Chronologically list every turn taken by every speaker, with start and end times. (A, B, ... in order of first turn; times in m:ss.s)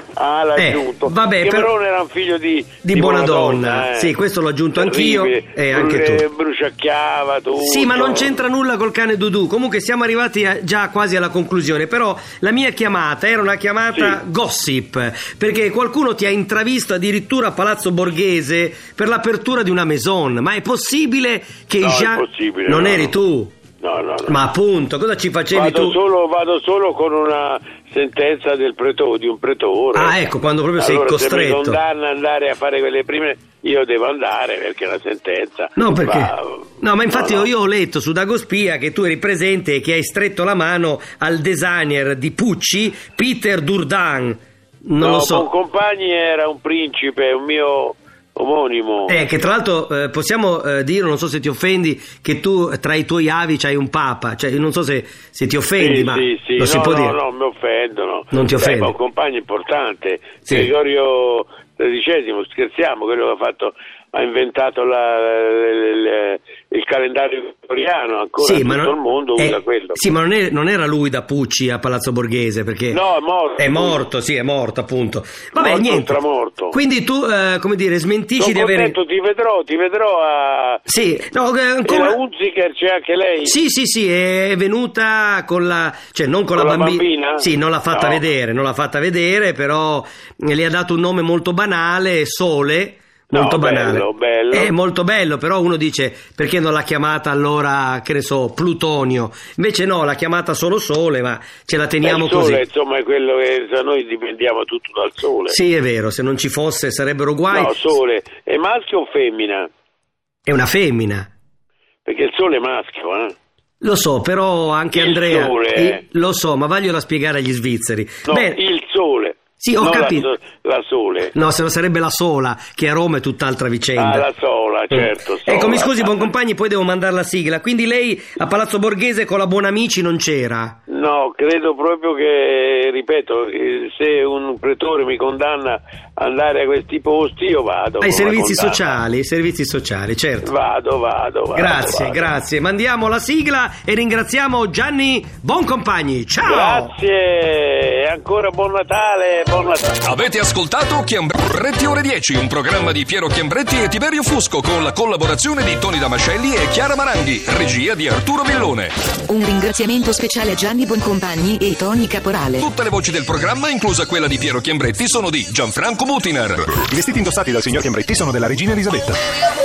0:00.2-0:04.2 A
0:00.6-0:01.7 B
0:02.8-0:06.3 B
0:04.7-0:08.3 A
0:07.6-0:23.6 B
0:13.9-0:14.2 A
0:21.8-0:23.1 A
0:23.8-0:24.4 A
0:24.3-0:26.0 B
0:25.5-0:37.5 A
0:30.0-0:31.8 B
0:35.8-0:45.5 B
0:45.0-0:49.2 A
0:49.1-0:57.2 B
0:55.8-1:10.0 A
0:58.3-0:58.9 B
1:08.4-1:13.0 B
1:12.9-1:14.0 A
1:13.6-1:19.0 B
1:15.5-1:16.8 A
1:18.4-1:20.8 A
1:20.9-1:22.2 B
1:21.8-1:23.6 A
1:23.4-1:42.6 B
1:26.6-1:28.2 A
1:33.3-1:34.7 A
1:42.0-1:45.6 A
1:45.5-1:47.9 B
1:47.5-1:49.7 A
1:50.5-1:51.3 B
1:52.0-1:53.4 A
1:53.8-1:58.6 B
1:54.9-1:56.0 A
1:58.3-2:01.3 A
1:59.6-2:00.3 B
2:01.3-2:04.3 B
2:04.0-2:06.2 A
2:04.9-2:10.8 B
2:10.9-2:19.0 A
2:18.0-2:20.5 B
2:20.4-2:22.4 A
2:21.6-2:27.0 B
2:26.4-2:30.4 A
2:30.0-2:38.9 C
2:39.3-2:42.6 D
2:42.6-2:46.8 C
2:46.9-2:49.2 E